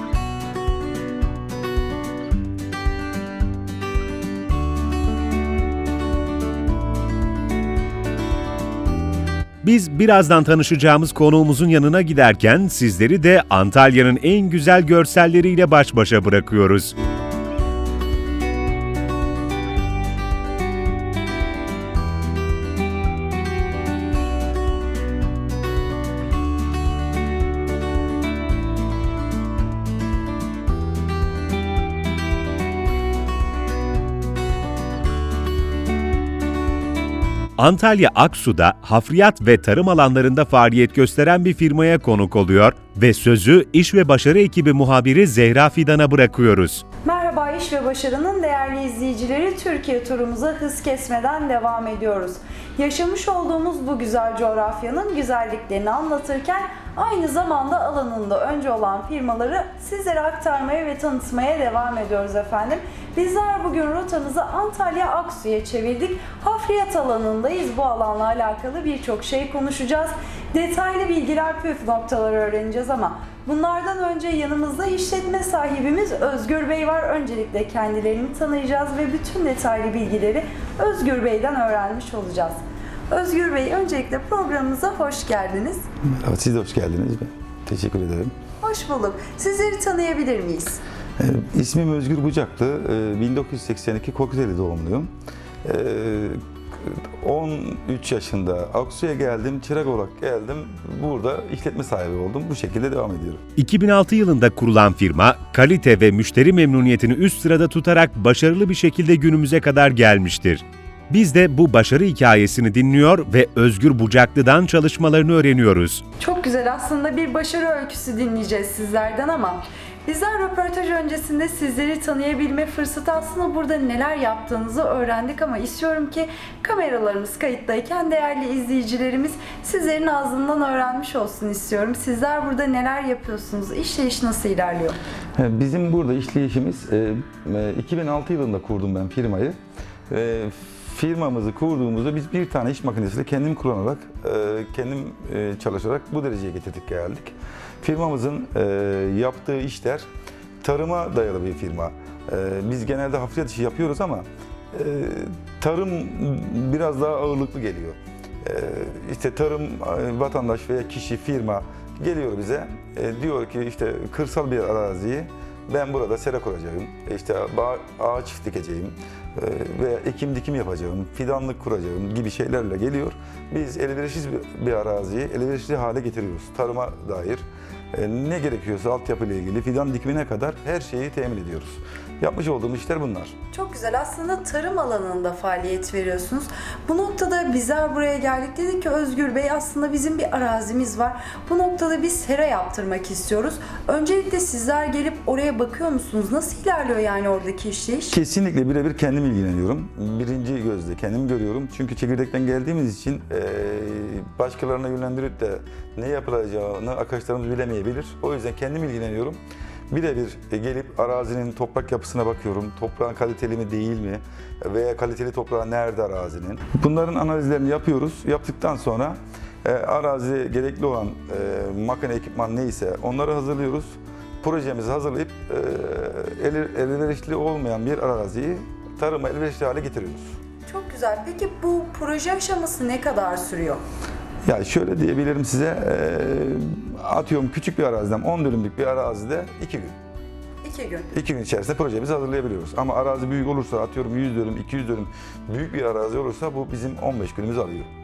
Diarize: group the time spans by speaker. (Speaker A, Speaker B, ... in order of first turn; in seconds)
Speaker A: 9.6-16.9, 37.6-46.8, 103.6-116.0
Speaker B: 47.0-85.8, 88.6-90.8, 116.2-135.0, 183.5-198.2, 230.7-233.8, 240.6-241.1
Speaker C: 86.1-88.3, 91.2-95.1, 95.6-103.4, 135.4-139.6, 140.1-150.1, 150.6-183.3, 198.1-209.4, 209.9-230.4, 234.4-239.9, 241.1-247.9